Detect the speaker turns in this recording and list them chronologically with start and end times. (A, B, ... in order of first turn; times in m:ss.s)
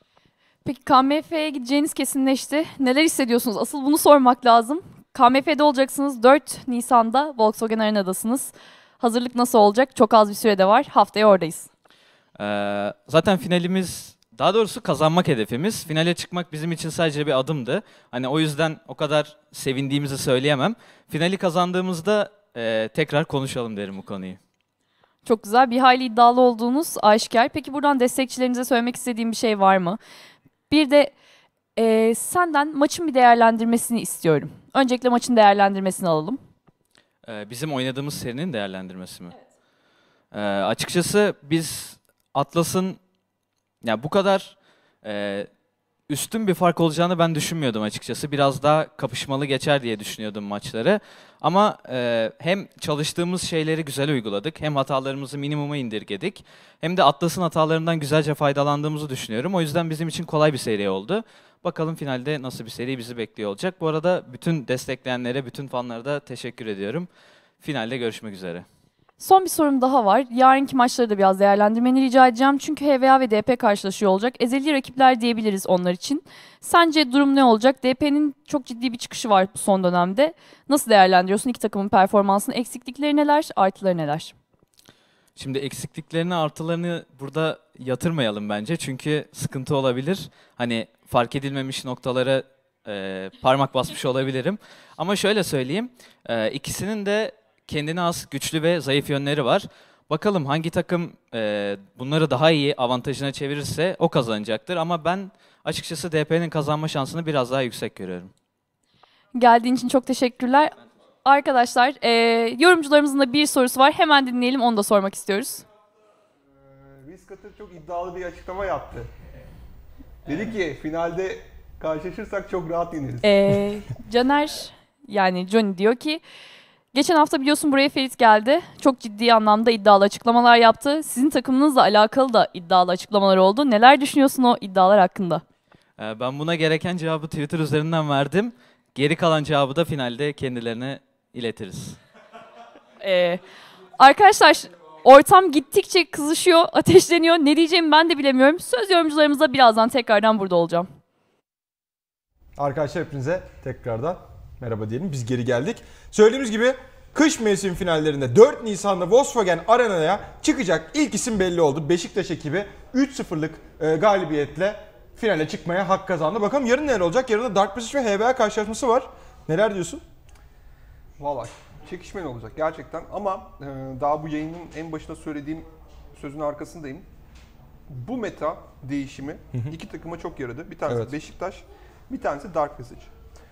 0:00.6-0:11.7 A
0:12.4-0:24.4 B
0:25.2-0:30.0 A
0:30.7-0:31.2 A
0:31.8-0:36.4 A
0:37.2-0:39.3 B
0:40.3-0:43.0 B
0:43.8-0:45.5 B
0:46.1-1:07.1 B
1:07.6-1:08.7 B
1:09.2-1:24.4 A
1:25.4-1:48.3 B
1:49.4-1:55.7 A
1:56.6-1:59.1 C
2:00.3-2:03.5 C
2:03.2-2:06.2 A
2:06.9-2:15.4 A
2:16.0-2:22.0 B
2:23.0-2:23.4 A
2:24.0-2:30.9 A
2:32.6-2:50.0 D
2:51.2-2:57.1 C
2:57.9-3:03.1 C
3:00.9-3:01.2 D